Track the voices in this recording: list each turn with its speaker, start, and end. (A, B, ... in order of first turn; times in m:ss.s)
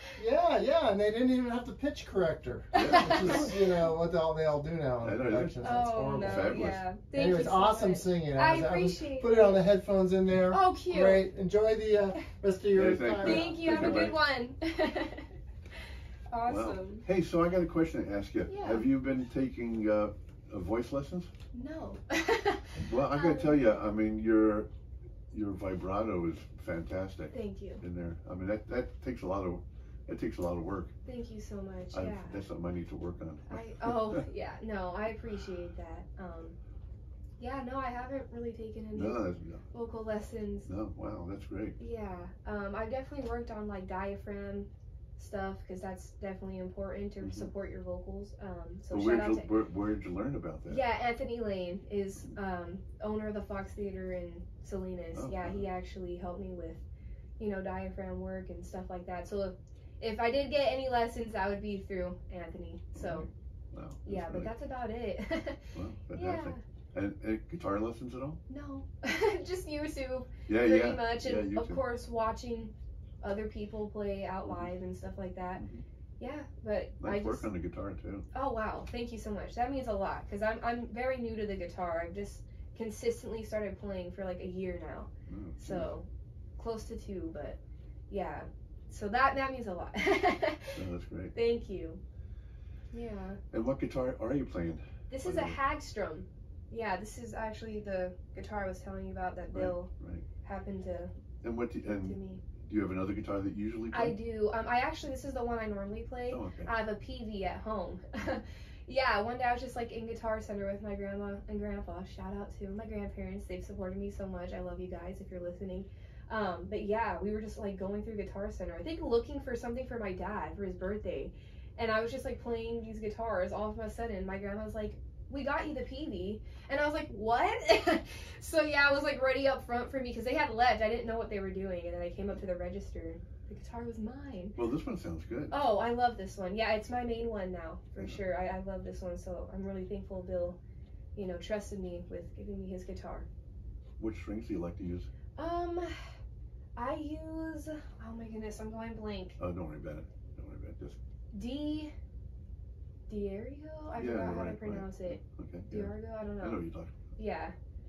0:00.2-0:14.1 A
0:02.7-0:03.6 B
0:02.7-0:03.7 C
0:05.0-0:06.8 C
0:05.6-0:09.6 B
0:10.5-0:11.3 B
0:12.7-0:14.2 C
0:13.2-0:15.3 B
0:16.3-0:17.0 B
0:16.5-0:21.3 C
0:18.5-0:18.9 B
0:21.5-0:23.6 B
0:22.8-0:24.7 C
0:25.3-0:30.9 C
0:27.3-0:27.8 B
0:31.1-0:32.4 B
0:31.9-0:34.2 C
0:33.5-0:36.6 B
0:37.4-0:40.7 B
0:38.9-0:39.7 C
0:40.7-0:41.8 C
0:41.8-0:49.5 B
0:47.2-0:47.5 C
0:48.9-0:50.8 C
0:50.7-0:56.8 B
0:55.1-0:55.7 C
0:57.4-1:03.3 B
1:03.0-1:04.5 C
1:04.1-1:06.6 B
1:05.7-1:08.4 C
1:08.5-1:15.6 B
1:10.5-1:11.8 C
1:15.6-1:15.8 C
1:16.2-1:17.5 B
1:17.0-1:18.3 C
1:18.3-1:25.1 B
1:25.3-1:25.9 C
1:25.6-1:27.6 B
1:28.1-1:30.8 B
1:30.8-1:31.3 C
1:31.3-1:32.0 B
1:32.9-1:33.4 B
1:33.5-1:35.6 C
1:35.1-1:39.9 B
1:39.5-1:40.2 C
1:40.4-1:41.1 B
1:41.4-1:44.2 C
1:41.8-1:42.4 B
1:43.9-2:14.6 B
1:46.3-1:46.7 C
2:14.6-2:15.6 C
2:15.5-2:20.6 B
2:21.2-2:23.3 B
2:24.0-2:25.1 C
2:25.4-2:25.9 B
2:26.8-2:29.4 B
2:29.4-2:31.0 C
2:31.3-2:31.9 B
2:33.1-2:36.6 B
2:34.0-2:36.9 C
2:37.2-2:37.5 B